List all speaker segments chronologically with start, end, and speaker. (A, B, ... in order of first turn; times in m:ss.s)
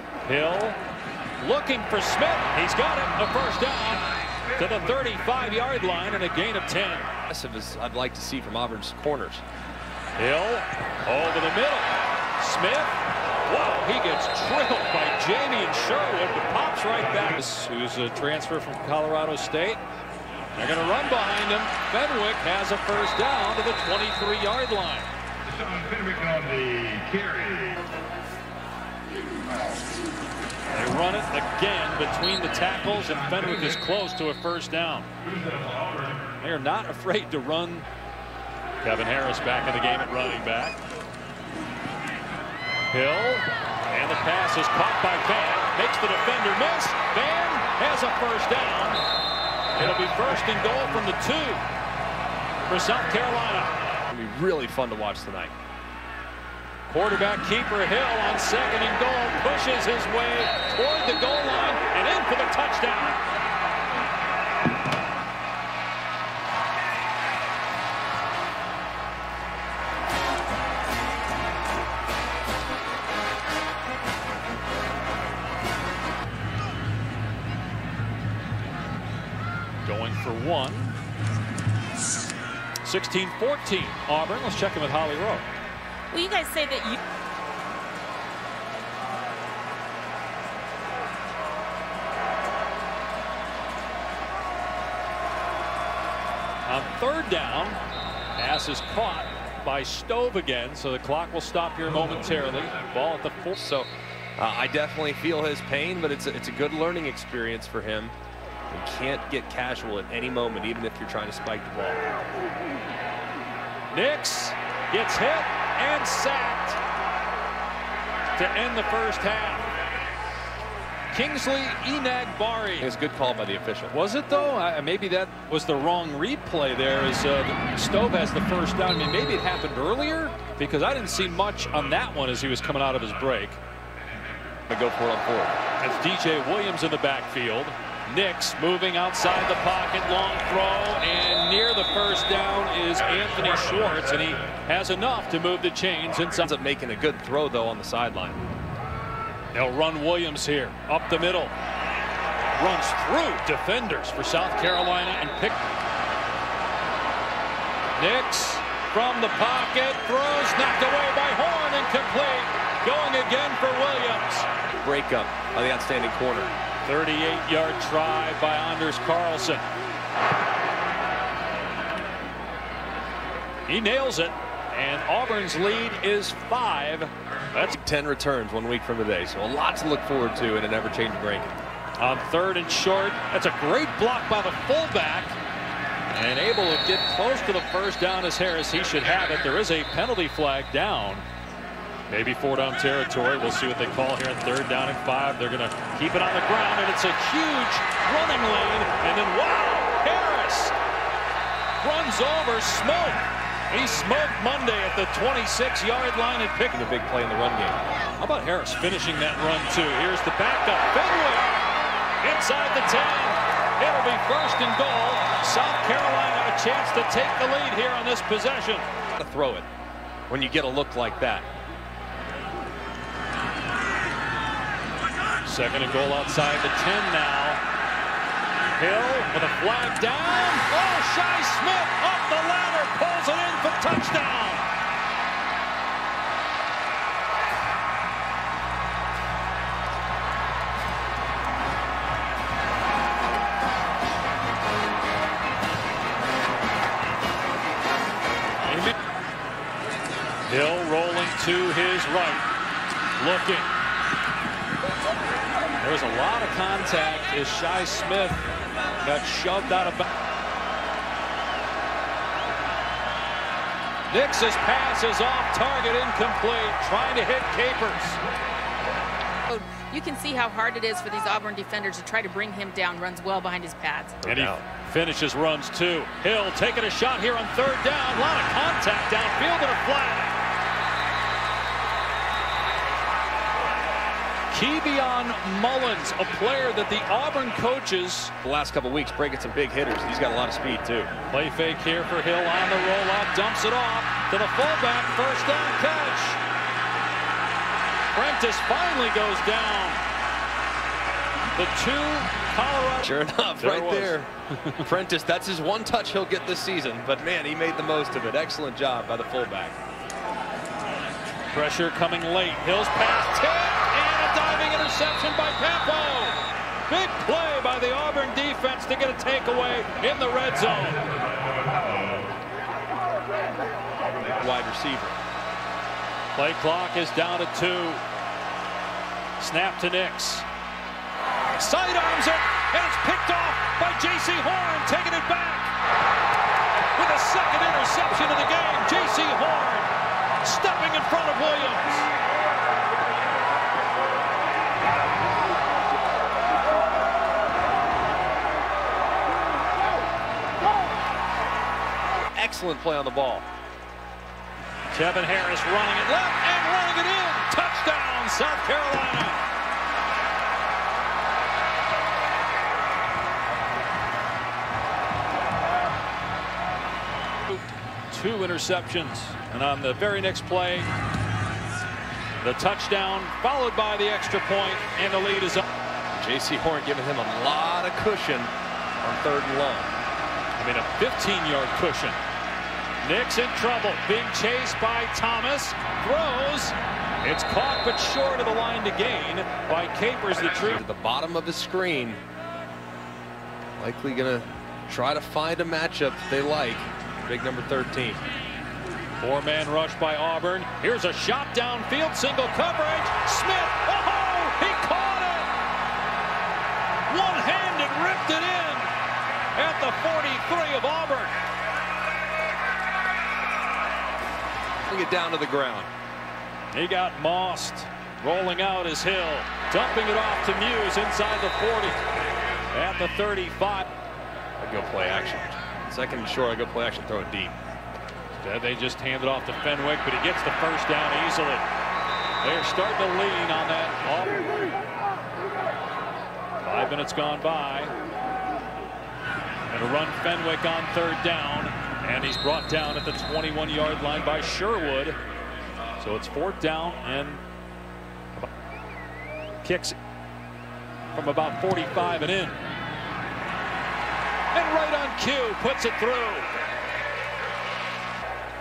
0:00.2-0:00.8 A
0:01.4-0:07.1 A
0:07.3-0:09.4 B
0:10.2-0:19.8 A
0:20.6-0:25.1 A
0:26.0-0:27.6 B
0:30.7-0:35.1 A
0:36.3-0:37.9 A
0:38.8-0:40.8 A
0:42.9-0:49.0 A
0:49.8-0:51.6 A
0:52.7-0:53.8 A
0:54.1-0:55.5 B
0:56.9-1:03.2 A
1:19.8-1:21.0 A
1:22.8-1:25.5 A
1:26.1-1:27.0 C
1:36.7-1:37.8 A
1:38.4-1:43.6 A
1:43.6-1:48.1 B
1:48.7-1:52.0 B
1:53.9-1:56.8 A
1:58.4-1:59.7 A
2:01.1-2:02.9 A
2:02.8-2:04.0 B
2:03.9-2:13.6 A
2:14.7-2:15.6 B
2:15.8-2:26.5 A
2:26.3-2:28.4 B
2:29.5-2:31.5 A
2:32.6-2:35.7 A
2:38.0-2:44.5 A
2:44.8-2:46.5 B
2:46.8-2:49.6 A
2:53.7-2:57.7 A
2:57.7-3:01.5 B
3:02.0-3:05.4 A
3:06.1-3:11.3 A
3:12.1-3:20.8 A
3:21.8-3:26.8 A
3:26.7-3:27.8 B
3:28.2-3:31.6 A
3:32.2-3:38.8 A
3:39.2-3:39.7 B
3:40.3-3:41.5 B
3:45.4-3:47.6 A
3:48.8-3:54.6 A
4:08.7-4:08.9 A
4:10.5-4:12.5 A
4:13.2-4:13.7 A
4:15.8-4:18.5 A
4:19.0-4:20.1 A
4:24.1-4:28.2 A
4:29.5-4:34.2 C
4:34.2-4:34.6 B
4:34.2-4:40.4 A
4:44.5-4:48.3 A
4:48.4-4:51.1 B
4:51.3-4:56.4 A
4:58.1-5:00.0 A
5:01.5-5:04.8 A
5:03.0-5:09.8 B
5:11.5-5:21.0 A
5:24.2-5:25.2 B
5:26.4-5:28.0 A
5:29.4-5:30.5 A
5:31.6-5:35.7 A
5:36.9-5:42.1 A
5:52.3-5:53.5 B
5:54.9-5:59.5 A
6:07.5-6:10.9 A
6:12.4-6:15.6 A
6:16.1-6:20.0 B
6:20.6-6:22.2 A
6:23.0-6:30.8 A
6:30.6-6:32.2 B
6:33.8-6:38.2 B
6:39.2-6:45.5 A
6:47.1-6:48.9 A
6:49.6-6:51.3 A
6:54.9-6:55.9 B
6:56.7-7:02.0 A
7:02.7-7:03.9 A
7:04.6-7:07.6 B
7:08.3-7:11.7 A
7:12.4-7:14.5 A
7:16.6-7:17.9 A
7:19.7-7:25.2 A
7:26.0-7:27.4 A
7:29.6-7:30.0 A
7:31.1-7:32.6 A
7:34.5-7:36.5 A